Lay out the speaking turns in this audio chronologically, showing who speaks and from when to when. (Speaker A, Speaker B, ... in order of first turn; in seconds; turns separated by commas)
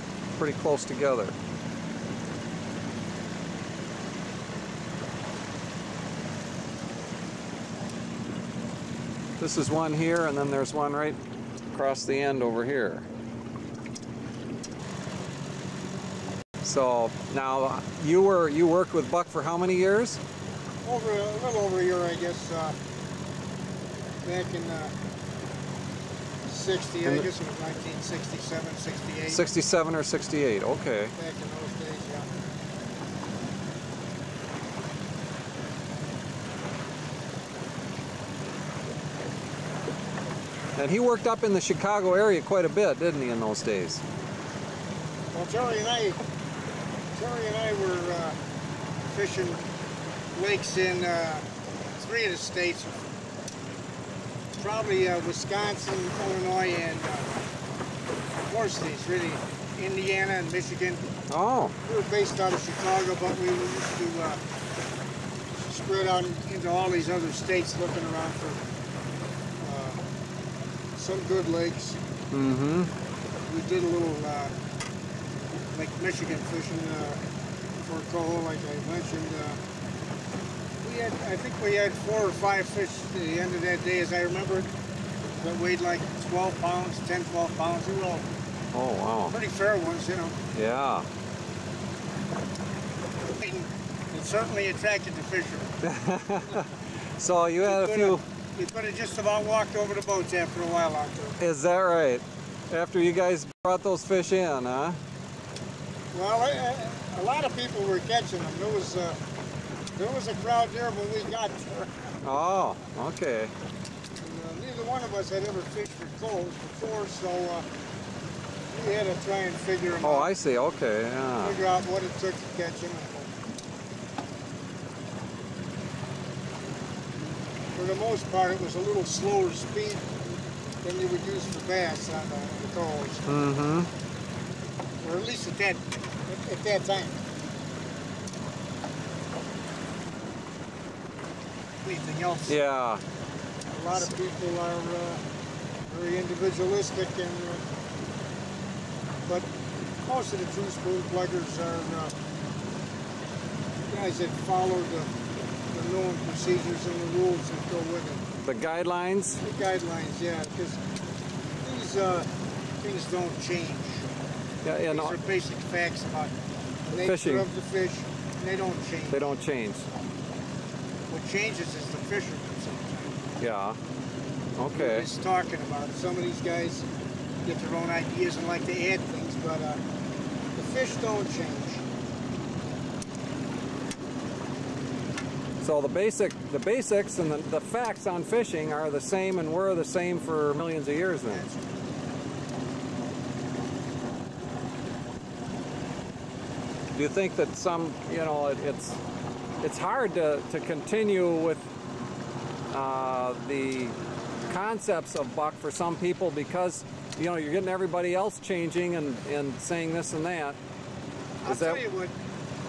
Speaker A: 0.3-1.4, Speaker A: 9.4-11.2, Speaker A: 11.7-13.1, Speaker A: 16.6-20.2, Speaker B: 20.8-22.8, Speaker B: 24.2-24.9, Speaker B: 26.5-29.4, Speaker A: 29.3-31.1, Speaker B: 31.2-32.3, Speaker A: 40.8-44.0, Speaker B: 45.3-46.2, Speaker B: 47.1-48.4, Speaker B: 49.1-49.6, Speaker B: 50.3-51.5, Speaker B: 52.0-53.0, Speaker B: 54.6-57.3, Speaker B: 58.5-61.0, Speaker A: 61.3-61.7, Speaker B: 61.8-64.4, Speaker B: 65.6-68.6, Speaker B: 69.6-70.0, Speaker B: 71.0-72.0, Speaker A: 72.3-72.9, Speaker B: 73.5-74.5, Speaker B: 75.7-77.2, Speaker B: 77.8-79.6, Speaker B: 80.8-84.7, Speaker B: 85.4-88.3, Speaker A: 88.7-89.3, Speaker B: 89.3-90.4, Speaker A: 90.5-91.0, Speaker B: 93.4-95.7, Speaker A: 95.8-98.2, Speaker B: 97.6-101.4, Speaker A: 101.4-105.0, Speaker B: 106.1-109.2, Speaker B: 110.0-112.1, Speaker A: 112.2-113.5, Speaker B: 114.2-117.7, Speaker B: 118.7-120.3, Speaker A: 120.0-121.6, Speaker B: 121.4-123.3, Speaker B: 127.7-130.0, Speaker B: 130.8-133.3, Speaker A: 133.2-133.9, Speaker B: 135.0-137.2, Speaker B: 141.8-142.6, Speaker A: 142.5-143.0, Speaker B: 143.7-145.2, Speaker B: 145.9-147.6, Speaker B: 150.1-152.1, Speaker B: 153.9-155.1, Speaker B: 155.7-158.2, Speaker A: 158.4-159.4, Speaker B: 159.4-160.8, Speaker B: 161.6-162.3, Speaker B: 162.8-164.0, Speaker A: 164.6-165.2, Speaker B: 164.9-166.3, Speaker B: 166.9-169.4, Speaker A: 167.0-167.5, Speaker A: 169.1-169.9, Speaker B: 171.1-173.2, Speaker A: 173.4-173.8, Speaker A: 174.6-175.1, Speaker B: 174.7-176.9, Speaker B: 177.4-179.8, Speaker B: 180.6-181.8, Speaker A: 185.6-191.4, Speaker B: 191.3-191.6, Speaker A: 196.9-199.0, Speaker A: 199.6-201.6, Speaker A: 202.7-203.9, Speaker A: 204.5-210.6, Speaker B: 211.4-212.1, Speaker A: 211.4-211.8